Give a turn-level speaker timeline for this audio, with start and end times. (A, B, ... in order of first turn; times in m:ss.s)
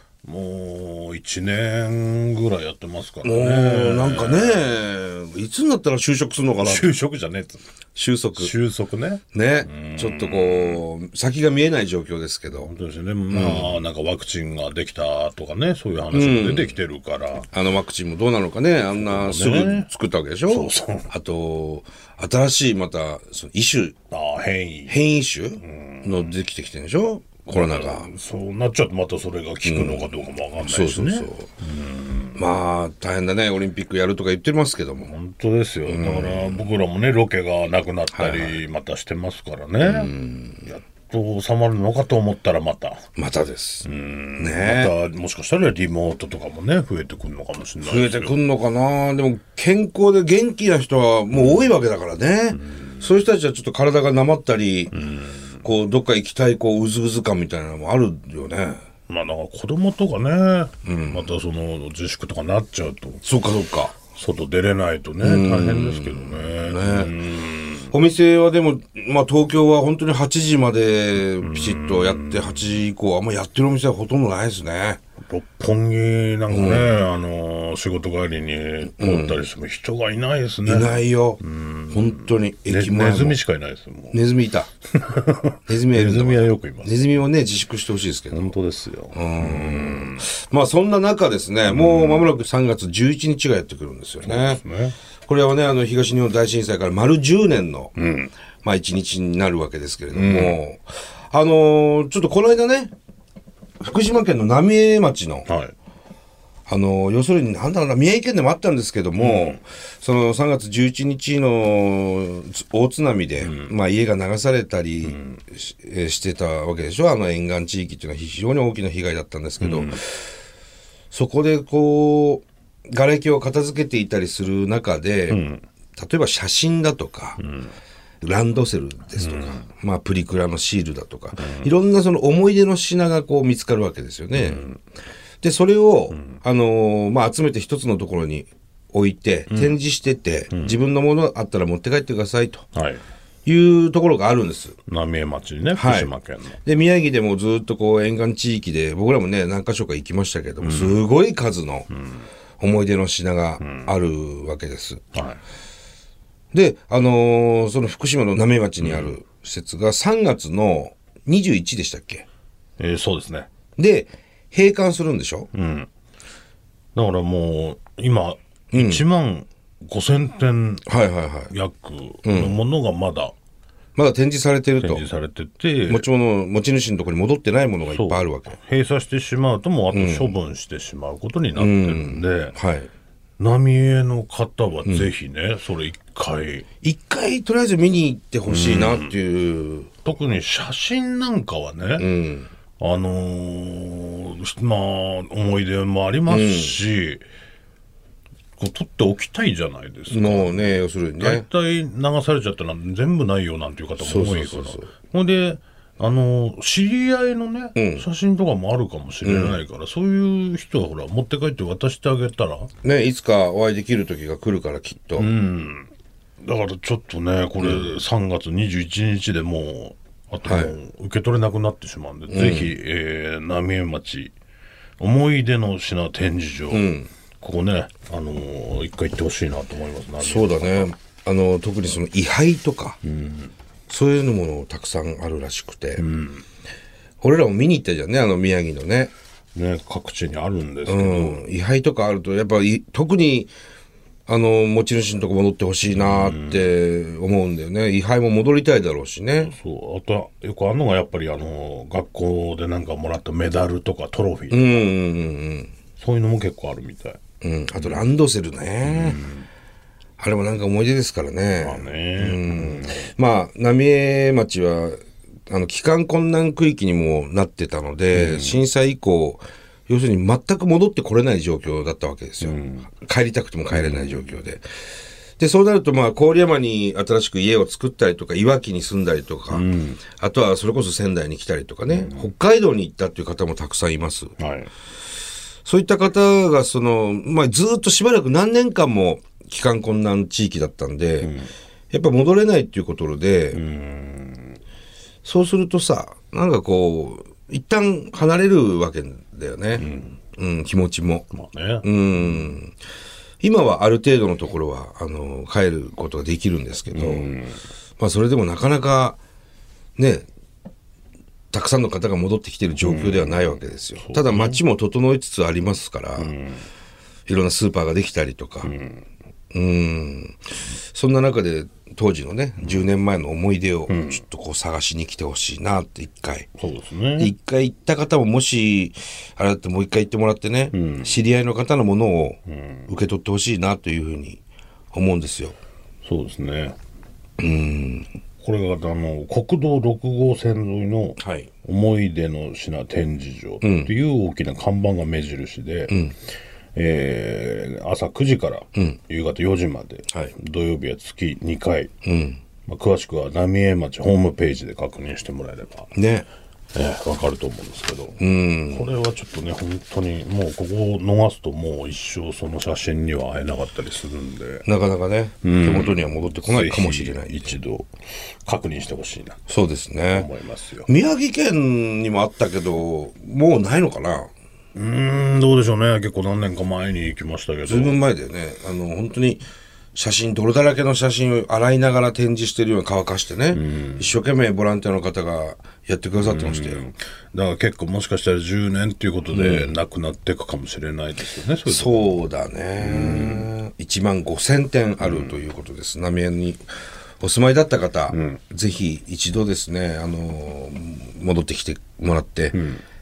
0:00.2-0:04.7 A
0:03.2-0:06.9 B
0:06.6-0:07.6 A
0:08.0-0:08.5 B
0:08.4-0:10.8 A
0:09.3-0:12.7 B
0:12.6-0:17.5 A
0:13.3-0:13.8 B
0:16.1-0:16.8 B
0:17.5-0:24.0 B
0:18.9-0:19.9 A
0:20.5-0:21.1 A
0:24.1-0:25.0 A
0:24.9-0:28.1 B
0:25.6-0:26.4 A
0:27.5-0:32.4 A
0:29.6-0:30.1 B
0:30.6-0:31.5 B
0:32.4-0:35.1 B
0:35.1-0:40.1 A
0:35.9-0:36.6 B
0:38.1-0:38.6 B
0:39.8-0:40.7 B
0:40.6-0:43.0 A
0:43.2-0:43.9 B
0:43.8-0:48.4 A
0:44.4-0:44.9 B
0:47.8-0:55.0 B
0:51.3-0:51.7 A
0:52.5-0:53.1 A
0:54.9-0:55.6 A
0:55.6-0:58.8 B
0:59.1-1:03.2 A
1:00.8-1:01.3 B
1:03.2-1:04.0 B
1:04.1-1:07.9 A
1:05.2-1:07.1 B
1:07.9-1:15.0 B
1:11.4-1:12.8 A
1:15.2-1:24.2 A
1:16.5-1:16.9 B
1:18.9-1:19.4 B
1:20.7-1:23.4 B
1:24.1-1:24.7 B
1:24.9-1:26.9 A
1:25.7-1:28.5 B
1:28.3-1:30.2 A
1:29.1-1:34.6 B
1:31.7-1:32.3 A
1:34.2-1:35.0 A
1:35.3-1:37.9 B
1:38.0-1:38.3 A
1:38.6-1:42.9 B
1:40.1-1:40.6 A
1:43.8-1:45.5 B
1:45.5-1:45.7 A
1:46.7-2:00.3 B
1:49.2-1:49.6 A
1:53.4-1:53.7 A
1:55.0-1:55.4 A
1:59.6-2:00.0 A
2:01.1-2:05.4 B
2:05.3-2:05.6 A
2:06.0-2:07.4 B
2:07.4-2:07.7 A
2:08.2-2:14.6 B
2:09.2-2:09.6 A
2:11.4-2:11.7 A
2:14.4-2:14.8 A
2:15.4-2:22.7 B
2:16.1-2:16.4 A
2:19.5-2:19.8 A
2:20.5-2:20.8 A
2:22.8-2:23.0 A
2:23.5-2:24.8 B
2:24.9-2:26.6 A
2:25.8-2:26.1 B
2:26.6-2:31.9 B
2:30.6-2:31.1 A
2:31.9-2:32.2 A
2:32.6-2:35.0 B
2:33.6-2:33.9 A
2:35.1-2:35.4 A
2:36.5-2:42.3 B
2:38.8-2:39.1 A
2:42.8-2:43.5 A
2:43.8-2:45.5 B
2:45.5-2:45.9 A
2:47.0-2:50.9 A
2:48.7-2:49.0 B
2:50.9-2:51.5 B
2:51.5-2:53.3 A
2:52.2-2:52.6 B
2:54.0-2:55.0 B
2:54.8-2:56.1 A
2:55.9-2:58.6 B
2:57.9-3:02.6 A
2:59.9-3:00.3 B
3:01.6-3:02.9 B
3:03.4-3:06.6 A
3:06.8-3:09.9 B
3:08.5-3:09.2 A
3:10.0-3:12.1 A
3:12.0-3:12.5 B
3:12.8-3:17.2 A
3:16.3-3:16.8 B
3:18.6-3:32.7 A
3:20.1-3:21.5 B
3:24.0-3:24.9 B
3:27.8-3:28.0 B
3:29.2-3:29.6 B
3:32.8-3:35.3 B
3:35.2-3:35.9 A
3:36.4-3:44.3 A
3:37.6-3:37.9 B
3:40.4-3:40.7 B
3:42.3-3:42.7 B
3:45.0-3:46.8 A
3:46.7-3:47.1 B
3:47.4-3:50.9 A
3:50.2-3:53.0 B
3:53.0-3:53.5 A
3:53.9-3:56.0 B
3:56.0-3:56.4 A
3:57.2-3:59.1 B
3:59.6-4:01.4 A
4:00.9-4:03.5 B
4:04.3-4:09.5 B
4:05.9-4:06.7 A
4:09.4-4:14.9 A
4:14.5-4:15.7 B
4:16.0-4:17.2 A
4:17.4-4:19.2 B
4:17.8-4:18.0 A
4:18.8-4:19.5 A
4:20.2-4:25.0 B
4:21.6-4:23.1 A
4:25.5-4:34.6 B
4:28.1-4:28.6 A
4:32.4-4:32.9 A
4:33.7-4:34.3 A
4:35.4-4:44.4 B
4:39.5-4:40.0 A
4:41.9-4:42.3 A
4:44.4-4:44.7 A
4:45.6-4:51.3 B
4:51.2-4:51.5 A
4:51.9-4:53.6 B
4:53.5-4:54.6 A
4:55.2-5:01.3 B
4:59.8-5:00.2 A
5:01.3-5:02.6 A
5:01.8-5:02.7 B
5:03.4-5:07.3 B
5:06.9-5:07.6 A
5:08.0-5:09.2 B
5:10.0-5:10.3 B
5:11.5-5:16.3 B
5:12.8-5:14.6 A
5:16.2-5:16.7 A
5:17.3-5:18.7 B
5:18.6-5:19.0 A
5:19.5-5:26.5 B
5:22.6-5:22.9 A
5:23.9-5:24.2 A
5:26.6-5:27.3 A
5:27.2-5:34.4 B
5:30.7-5:31.2 A
5:32.5-5:32.9 A
5:34.9-5:35.6 B
5:36.0-5:36.8 A
5:37.4-5:38.1 B
5:38.4-5:46.0 A
5:41.2-5:41.5 B
5:43.6-5:43.9 B
5:45.9-5:46.2 B
5:46.8-5:51.9 A
5:50.1-5:50.4 B
5:52.0-5:52.4 B
5:52.7-5:55.9 A
5:56.0-5:56.3 B
5:56.7-5:58.2 A
5:58.2-5:58.9 B
5:58.7-6:04.6 A
6:04.7-6:07.6 B
6:05.4-6:07.9 A
6:08.4-6:09.4 A
6:09.5-6:10.3 B
6:10.1-6:10.9 A
6:10.9-6:14.3 B
6:14.8-6:18.0 A
6:17.7-6:19.4 B
6:20.0-6:26.8 B
6:23.5-6:24.1 A
6:26.2-6:32.2 A
6:29.3-6:29.7 B
6:31.7-6:36.7 B
6:32.8-6:33.5 A
6:35.0-6:35.4 A
6:37.2-6:42.6 B
6:38.1-6:38.4 A
6:42.5-6:42.8 A